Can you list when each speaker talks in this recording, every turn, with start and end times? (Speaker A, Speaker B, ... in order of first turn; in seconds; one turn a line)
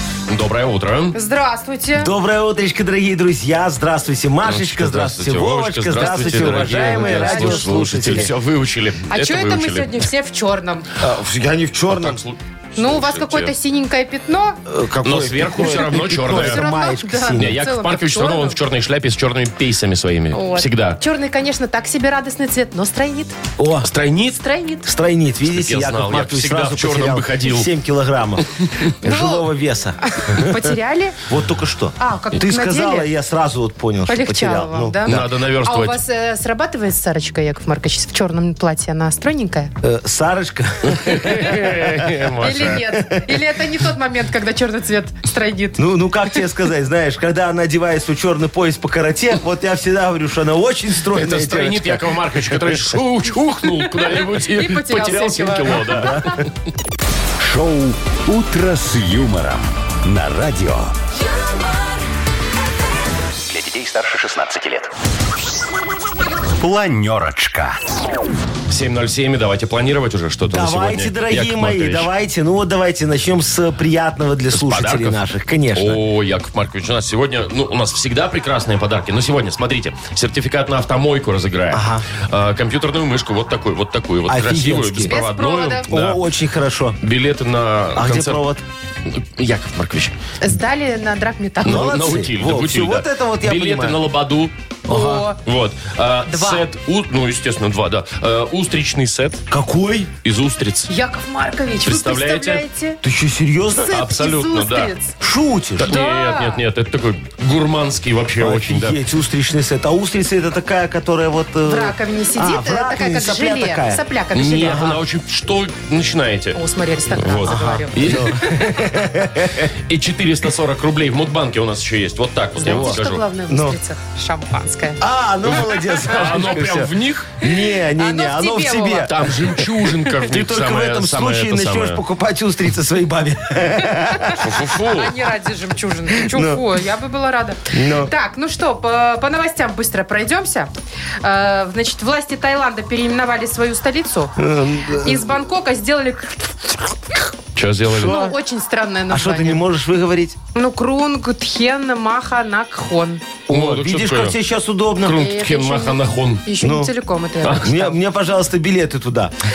Speaker A: 0.3-1.1
Speaker B: 1.1-2.1
Speaker C: 2.0-8.3
Speaker A: 4.4-10.1
Speaker B: 6.0-8.2
Speaker B: 9.1-10.9
Speaker C: 11.0-12.2
Speaker A: 11.9-13.5
Speaker B: 12.8-14.6
Speaker C: 14.7-17.6
Speaker A: 15.0-16.6
Speaker B: 15.6-18.6
Speaker A: 17.4-21.0
Speaker B: 20.3-23.3
Speaker C: 23.6-23.9
Speaker A: 23.8-24.4
Speaker B: 24.4-24.8
Speaker C: 24.8-30.8
Speaker A: 25.5-27.7
Speaker A: 28.6-28.8
Speaker B: 29.0-29.5
Speaker B: 30.0-31.2
Speaker C: 31.3-35.3
Speaker B: 32.0-33.1
Speaker B: 34.1-39.7
Speaker A: 35.0-36.0
Speaker C: 39.8-42.2
Speaker A: 40.9-42.8
Speaker B: 42.4-45.8
Speaker C: 42.8-43.4
Speaker C: 45.8-52.9
Speaker A: 51.1-56.2
Speaker B: 53.6-56.3
Speaker C: 55.8-56.4
Speaker D: 57.4-60.9
Speaker D: 63.4-64.9
Speaker D: 66.6-67.8
Speaker A: 68.7-72.1
Speaker C: 70.5-76.0
Speaker A: 74.5-75.2
Speaker A: 75.7-86.2
Speaker C: 81.7-82.0
Speaker C: 84.2-85.2
Speaker B: 85.0-85.9
Speaker C: 85.9-87.0
Speaker A: 87.0-88.4
Speaker C: 87.9-88.6
Speaker A: 89.2-90.1
Speaker B: 90.4-92.0
Speaker C: 91.6-94.0
Speaker A: 91.6-94.5
Speaker C: 94.9-95.2
Speaker B: 94.9-95.4
Speaker A: 95.4-99.4
Speaker B: 96.3-96.6
Speaker C: 99.5-100.1
Speaker A: 100.2-100.9
Speaker B: 100.9-103.0
Speaker A: 101.8-102.6
Speaker C: 103.0-104.1
Speaker B: 103.9-105.1
Speaker A: 103.9-104.9
Speaker C: 105.2-105.9
Speaker A: 105.8-109.0
Speaker B: 105.8-106.6
Speaker C: 108.4-114.0
Speaker B: 111.7-115.0
Speaker A: 114.3-116.6
Speaker C: 114.6-115.0
Speaker B: 116.5-118.8
Speaker A: 117.2-118.3
Speaker C: 117.3-119.7
Speaker A: 119.7-123.2
Speaker B: 122.6-126.4
Speaker C: 122.6-123.8
Speaker C: 125.0-129.5
Speaker A: 126.0-127.3
Speaker B: 127.9-129.1
Speaker A: 129.1-132.0
Speaker C: 130.2-134.5
Speaker B: 134.2-140.7
Speaker A: 134.4-135.2
Speaker C: 136.1-136.6
Speaker C: 137.7-138.1
Speaker B: 141.2-144.3
Speaker C: 144.4-145.2
Speaker B: 145.0-147.2
Speaker A: 147.5-148.1
Speaker C: 147.8-148.3
Speaker B: 148.0-149.6
Speaker C: 149.1-150.4
Speaker B: 150.5-153.2
Speaker C: 153.5-155.2
Speaker A: 153.5-154.4
Speaker A: 155.0-156.4
Speaker B: 155.1-158.0
Speaker C: 156.6-156.9
Speaker A: 157.4-157.7
Speaker C: 157.6-159.3